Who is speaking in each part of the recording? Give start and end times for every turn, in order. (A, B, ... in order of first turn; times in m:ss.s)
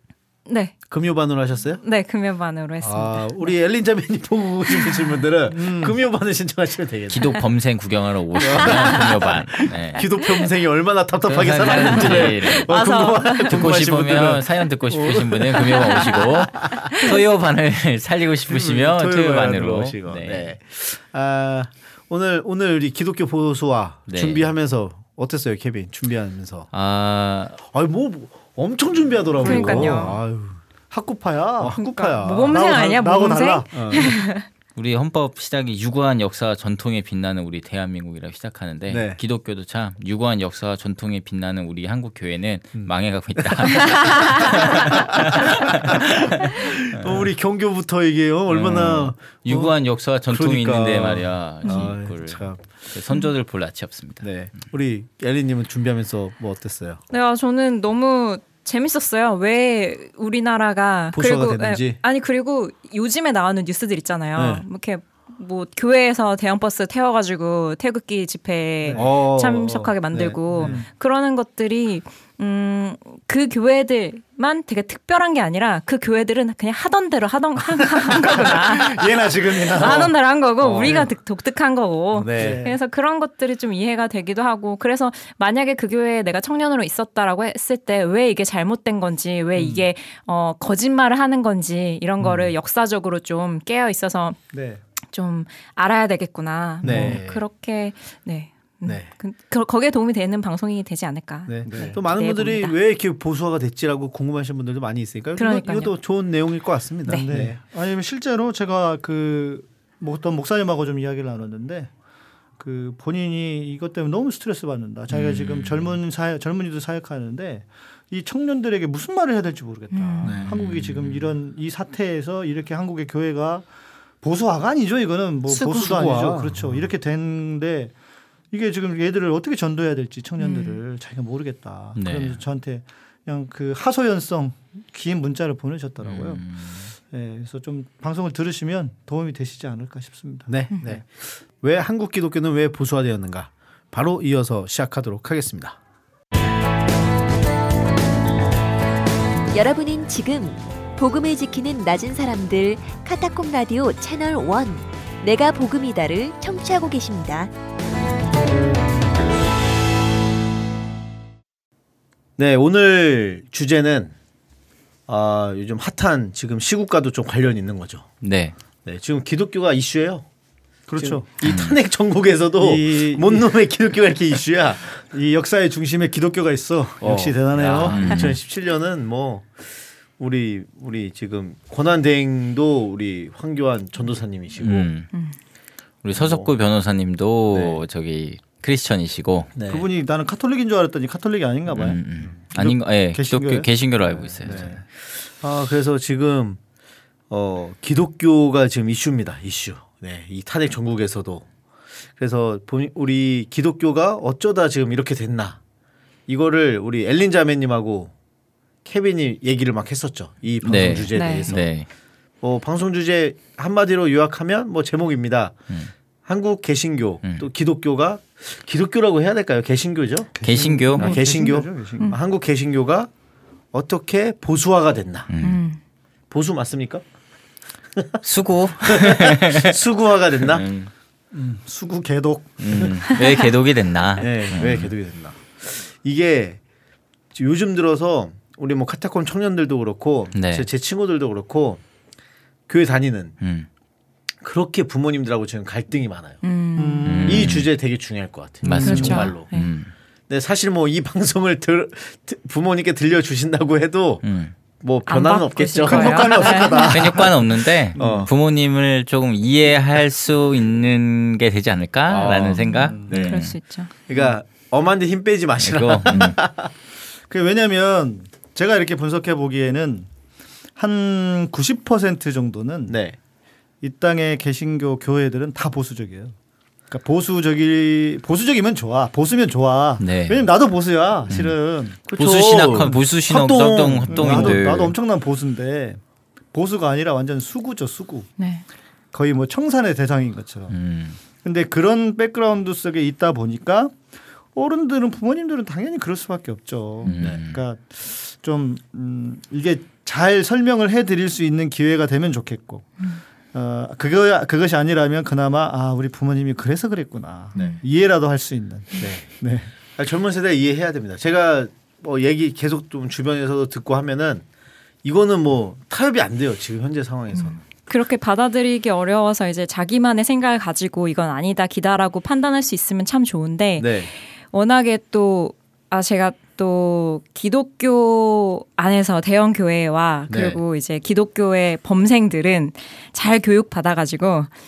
0:00.5-0:00.8 A
0:00.9-0:01.8 B
0:01.8-0:03.6 A
0:02.8-0:07.4 B
0:04.8-0:05.1 A
0:05.5-0:06.0 C
0:07.1-0:10.1 D
0:08.4-0:17.2 B
0:08.4-0:10.5 A
0:11.2-0:12.8 D
0:11.6-0:13.5 A
0:13.5-0:20.6 D
0:18.5-0:26.7 B
0:24.1-0:24.5 D
0:26.7-0:27.6 D
0:27.6-0:30.6 B
0:29.4-0:30.2 C
0:29.4-0:30.2 A
0:30.9-0:34.1 C
0:31.6-0:32.6 B
0:32.1-0:34.5 A
0:33.7-0:34.2 B
0:34.8-0:47.3 D
0:38.9-0:39.2 B
0:42.7-0:53.1 B
0:48.5-0:54.5 D
0:51.6-0:51.9 A
0:54.2-0:57.0 B
0:57.1-1:34.4 A
1:01.1-1:02.0 B
1:04.4-1:04.6 B
1:08.9-1:10.8 B
1:10.5-1:10.9 C
1:18.2-1:20.1 C
1:19.8-1:21.1 B
1:22.1-1:22.6 B
1:22.4-1:22.8 C
1:29.6-1:29.8 B
1:32.2-1:32.5 B
1:34.5-1:34.8 C
1:35.1-1:42.8 A
1:36.8-1:37.2 C
1:36.8-1:37.4 B
1:41.5-1:47.6 B
1:41.7-1:42.0 C
1:45.4-1:45.9 A
1:47.1-1:51.9 C
1:52.6-2:03.7 C
1:55.1-1:56.0 D
1:59.9-2:00.4 A
2:00.2-2:00.6 B
2:00.3-2:01.3 D
2:04.2-2:07.9 C
2:05.5-2:06.9 B
2:08.5-2:21.0 C
2:10.4-2:10.8 A
2:12.0-2:12.4 D
2:16.0-2:16.9 D
2:20.5-2:25.8 B
2:29.5-2:37.5 E
2:42.4-2:44.2 B
2:45.1-2:48.1 B
2:48.2-2:48.5 D
2:48.8-2:50.2 B
2:50.9-2:51.3 C
2:51.0-2:55.0 B
2:51.4-2:51.8 D
2:52.6-2:53.6 C
2:55.1-2:58.0 C
2:57.0-3:04.9 B
2:57.8-2:58.4 D
3:04.6-3:05.1 D
3:06.0-3:09.5 D
3:06.1-3:06.5 B
3:07.5-3:07.8 B
3:09.6-3:09.8 B
3:09.7-3:14.8 C
3:11.7-3:14.8 D
3:14.4-3:16.6 B
3:17.3-3:21.5 B
3:22.1-3:25.6 B
3:26.3-3:28.1 B
3:28.8-3:31.8 B
3:30.6-3:31.9 D
3:31.1-3:31.5 A
3:32.4-3:35.6 B
3:36.2-3:40.4 B
3:40.4-3:42.2 C
3:40.4-3:41.2 D
3:41.0-3:43.1 B
3:43.7-3:45.3 B
3:45.3-3:45.6 D
3:45.4-3:45.8 A
3:46.3-3:47.0 B
3:47.9-3:48.2 B
3:48.2-3:49.8 D
3:48.8-3:50.7 B
3:50.4-3:50.9 D
3:51.3-3:53.1 C
3:52.6-3:54.9 D
3:53.2-3:53.5 A
3:54.2-3:56.6 B
3:57.3-4:01.8 B
4:00.3-4:00.7 D
4:02.7-4:03.4 B
4:03.4-4:03.7 D
4:04.4-4:06.4 B
4:06.4-4:07.1 A
4:06.8-4:07.6 C
4:07.0-4:07.7 D
4:07.3-4:09.5 B
4:08.6-4:09.9 D
4:08.7-4:09.2 C
4:08.8-4:09.7 A
4:10.3-4:17.1 B
4:14.2-4:14.6 D
4:15.1-4:17.1 A
4:15.8-4:18.3 C
4:16.9-4:23.6 D
4:18.0-4:18.3 B
4:22.1-4:26.7 B
4:22.6-4:23.9 A
4:22.8-4:23.1 C
4:25.6-4:26.4 D
4:27.3-4:30.1 C
4:30.8-4:33.0 C
4:32.9-4:33.2 B
4:33.8-4:36.4 C
4:36.9-4:42.1 C
4:40.0-4:40.5 D
4:41.3-4:41.6 D
4:42.1-4:44.7 B
4:42.1-4:44.9 D
4:44.1-4:46.0 C
4:46.5-4:48.3 C
4:48.4-4:48.6 A
4:49.1-4:50.8 C
4:50.7-4:51.2 D
4:51.4-4:54.0 C
4:54.5-5:03.0 C
4:57.0-4:57.6 D
5:03.5-5:09.7 C
5:07.6-5:07.8 A
5:09.0-5:14.4 B
5:15.0-5:17.6 B
5:17.3-5:34.5 A
5:23.8-5:24.1 B
5:30.3-5:30.6 B